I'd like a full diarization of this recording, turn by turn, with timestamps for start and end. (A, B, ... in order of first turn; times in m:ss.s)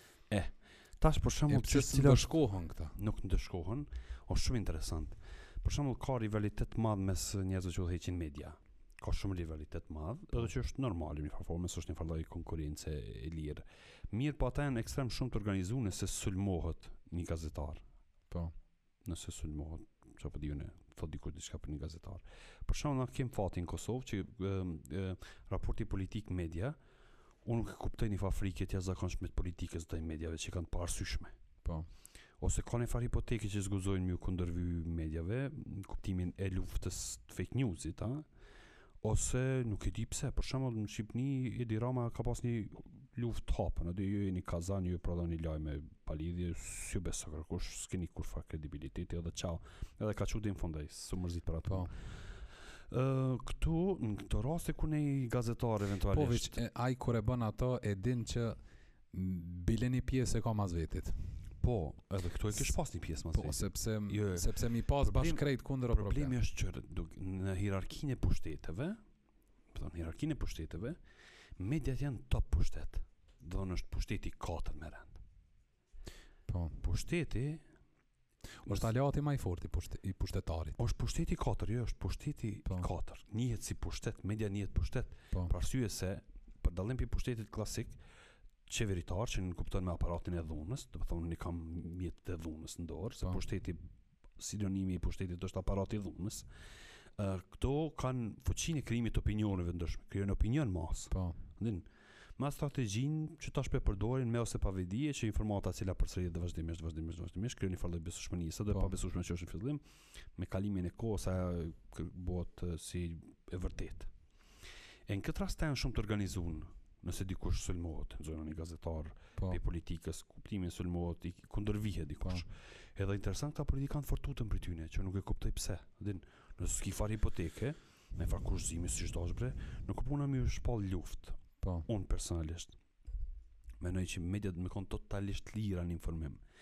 0:00.3-0:02.3 A
0:01.5-0:03.0 B
0:02.9-0:17.8 A
0:19.0-0:26.8 A
0:27.4-0:31.4 A
0:32.4-0:38.3 A
0:39.0-0:56.6 A
0:56.1-0:58.6 B
0:59.1-1:01.2 B
1:01.6-1:09.0 A
1:03.3-1:06.3 B
1:09.7-1:11.0 A
1:11.6-1:15.2 A
1:16.5-1:16.7 B
1:16.8-1:17.6 A
1:18.6-1:20.8 B
1:20.8-1:28.0 A
1:28.7-1:33.8 A
1:34.4-1:36.4 A
1:37.2-1:49.8 A
1:50.4-1:54.1 A
1:55.1-2:12.8 A
2:11.6-2:11.9 B
2:13.8-2:16.4 A